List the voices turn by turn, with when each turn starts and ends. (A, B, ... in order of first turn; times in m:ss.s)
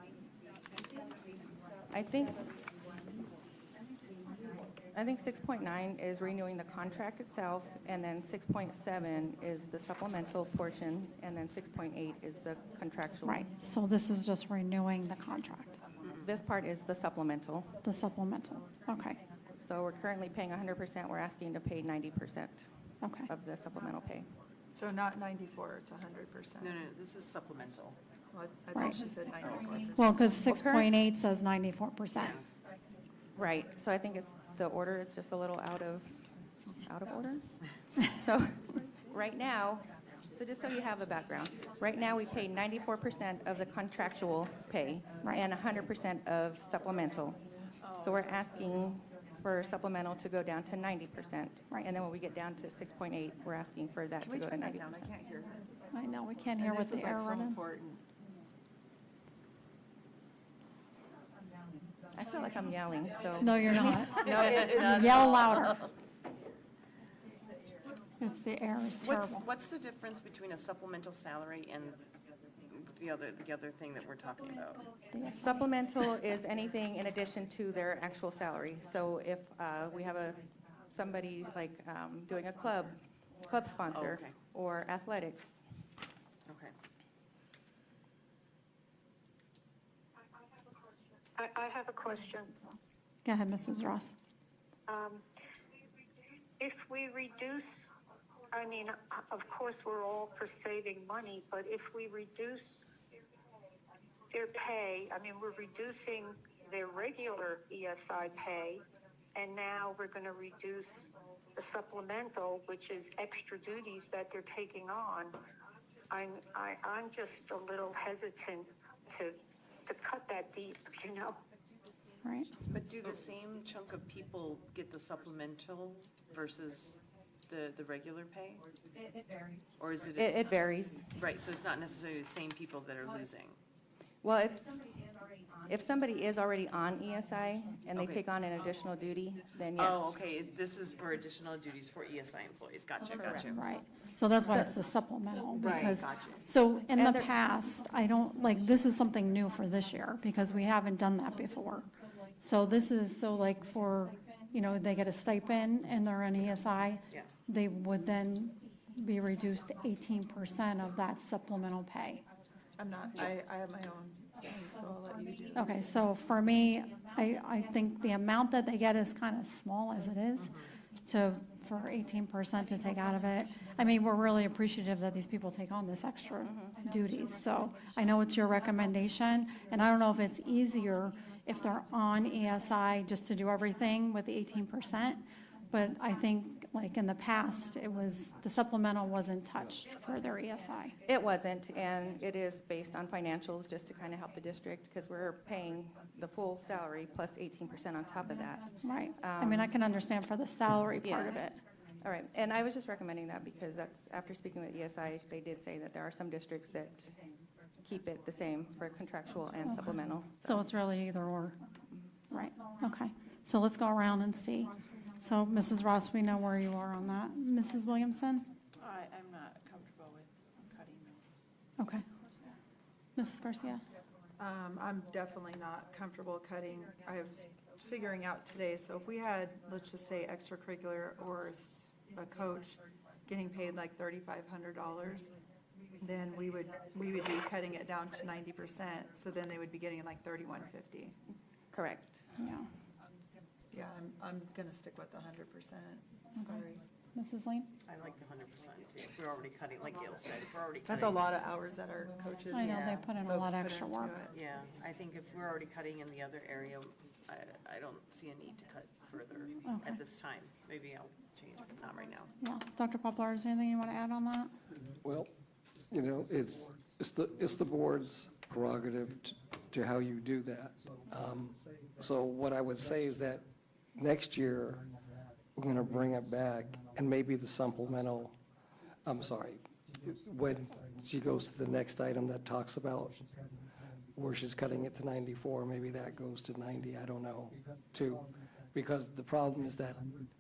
0:01.9-0:02.5 A
0:04.9-0:13.5 A
0:13.2-0:15.8 B
0:16.2-0:17.7 A
0:17.8-0:19.2 B
0:19.6-0:22.7 A
0:23.0-0:23.3 B
0:23.2-0:24.3 A
0:24.7-0:26.8 C
0:26.6-0:28.0 D
0:28.3-0:30.0 C
0:28.7-0:29.1 B
0:29.4-0:29.9 D
0:29.9-0:32.4 B
0:30.5-0:30.9 A
0:32.1-0:32.4 D
0:33.4-0:36.2 A
0:36.8-0:37.5 A
0:38.1-0:47.4 A
0:47.7-0:48.8 E
0:48.0-0:55.1 A
0:54.2-0:55.6 C
0:55.9-0:57.6 B
0:56.6-0:58.0 C
1:02.1-1:04.6 A
1:03.4-1:05.9 B
1:03.8-1:05.9 D
1:04.4-1:04.8 C
1:08.2-1:09.4 B
1:09.0-1:12.0 D
1:12.7-1:14.9 D
1:15.1-1:15.7 B
1:15.2-1:25.6 A
1:23.9-1:24.3 D
1:26.5-1:26.7 D
1:30.8-1:32.5 F
1:33.2-1:34.2 B
1:34.9-1:35.2 F
1:36.6-1:37.9 F
1:38.5-1:42.8 F
1:44.3-1:48.8 F
1:49.3-1:55.4 F
1:56.1-2:01.4 F
2:02.2-2:02.5 B
2:02.7-2:08.7 D
2:09.8-2:13.6 D
2:10.2-2:11.1 A
2:14.2-2:14.8 A
2:15.7-2:20.0 A
2:17.9-2:18.2 D
2:19.8-2:23.6 D
2:23.2-2:23.5 A
2:23.4-2:42.2 B
2:24.4-2:24.7 D
2:25.6-2:26.4 D
2:26.9-2:27.3 A
2:42.8-2:45.9 C
2:45.5-3:11.0 B
2:50.4-2:50.7 D
2:56.4-2:56.8 A
3:11.0-3:19.7 A
3:18.8-3:21.6 B
3:21.0-3:21.4 A
3:22.0-3:27.1 A
3:27.8-3:30.6 A
3:29.6-3:31.6 B
3:32.3-3:38.5 B
3:38.8-3:41.4 E
3:41.8-3:42.0 B
3:43.2-3:43.8 B
3:44.4-3:55.3 C
3:56.0-4:01.2 C
4:01.7-4:02.2 A
4:02.4-4:02.7 B
4:03.7-4:06.8 C
4:07.1-4:07.7 B
4:07.8-4:11.3 D
4:10.8-4:14.3 C
4:12.5-4:14.2 B
4:14.3-4:22.3 D
4:19.6-4:20.0 B
4:22.4-4:24.5 B
4:25.0-4:25.3 G
4:25.9-4:33.4 G
4:34.0-4:34.8 G
4:35.6-4:38.4 G
4:39.0-4:43.2 G
4:44.2-4:50.0 G